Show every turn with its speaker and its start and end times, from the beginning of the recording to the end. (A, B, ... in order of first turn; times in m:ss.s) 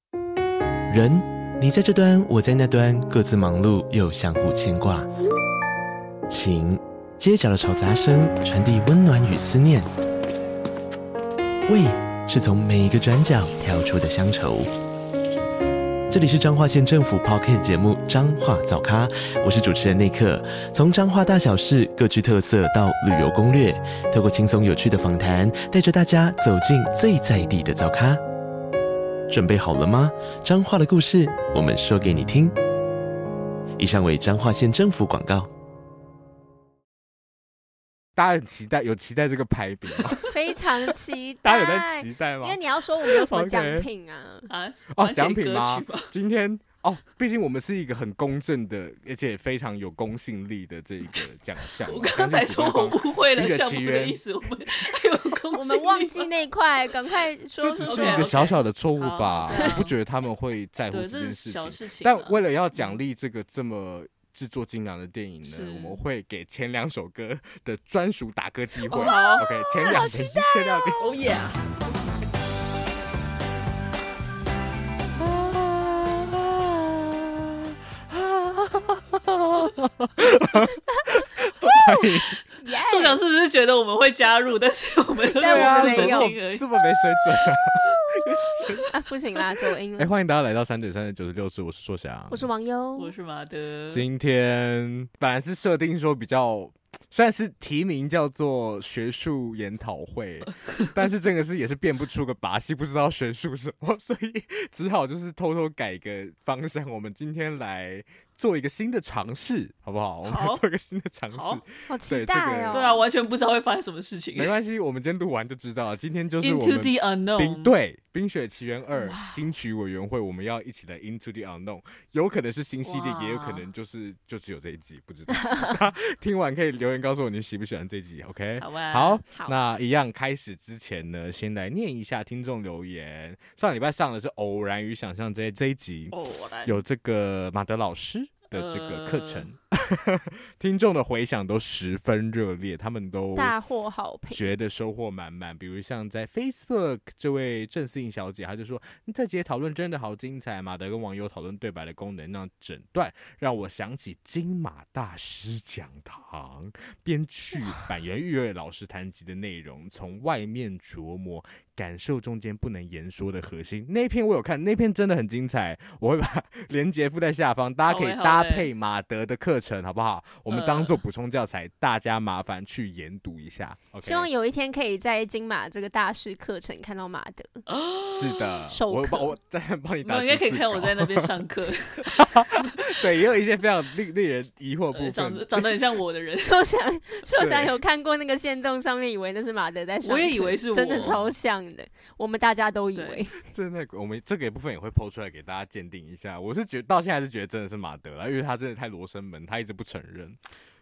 0:00.9-0:05.1 A
0:06.3-0:09.9 A
0:11.7-0:14.7 A
0:16.1-0:28.2 A
0:29.3-0:32.6 A
0:33.8-0:35.5 A
0:38.1-0:40.4 B
0:40.3-0:44.5 C
0:41.4-0:43.9 B
0:44.5-0:46.1 D
0:44.9-0:54.2 B
0:51.8-0:56.3 D
0:55.5-0:58.3 C
0:57.6-1:11.1 B
0:57.8-0:59.9 D
0:59.5-0:59.8 C
1:00.9-1:03.0 D
1:05.4-1:06.0 D
1:08.9-1:11.0 C
1:08.9-1:10.2 D
1:11.0-1:11.6 D
1:15.2-1:22.3 B
1:20.9-1:21.9 C
1:22.6-1:23.2 C
1:22.9-1:26.7 D
1:25.4-1:26.3 C
1:25.4-1:28.9 B
1:28.9-1:30.1 C
1:30.0-1:32.5 B
1:32.3-1:33.1 C
1:33.0-1:34.0 D
1:33.9-1:52.9 B
1:50.2-1:50.6 D
1:51.3-1:51.6 D
1:51.9-1:53.0 C
1:52.7-1:54.5 D
1:54.4-2:23.5 B
1:56.4-1:57.7 D
1:59.0-1:59.3 C
2:02.8-2:03.6 D
2:08.6-2:09.2 D
2:16.1-2:16.7 D
2:18.5-2:19.4 D
2:23.3-2:24.5 C
2:24.3-2:54.3 B
2:47.9-2:48.7 D
2:50.5-2:51.0 D
2:54.0-2:57.6 C
2:57.7-2:58.6 D
2:58.1-3:01.3 B
2:58.7-2:59.3 C
3:00.0-3:03.1 D
3:02.0-3:05.7 B
3:04.9-3:06.6 D
3:06.4-3:13.4 C
3:07.4-3:07.7 B
3:10.0-3:11.2 D
3:11.0-3:11.3 B
3:12.9-3:13.2 D
3:13.5-3:20.4 B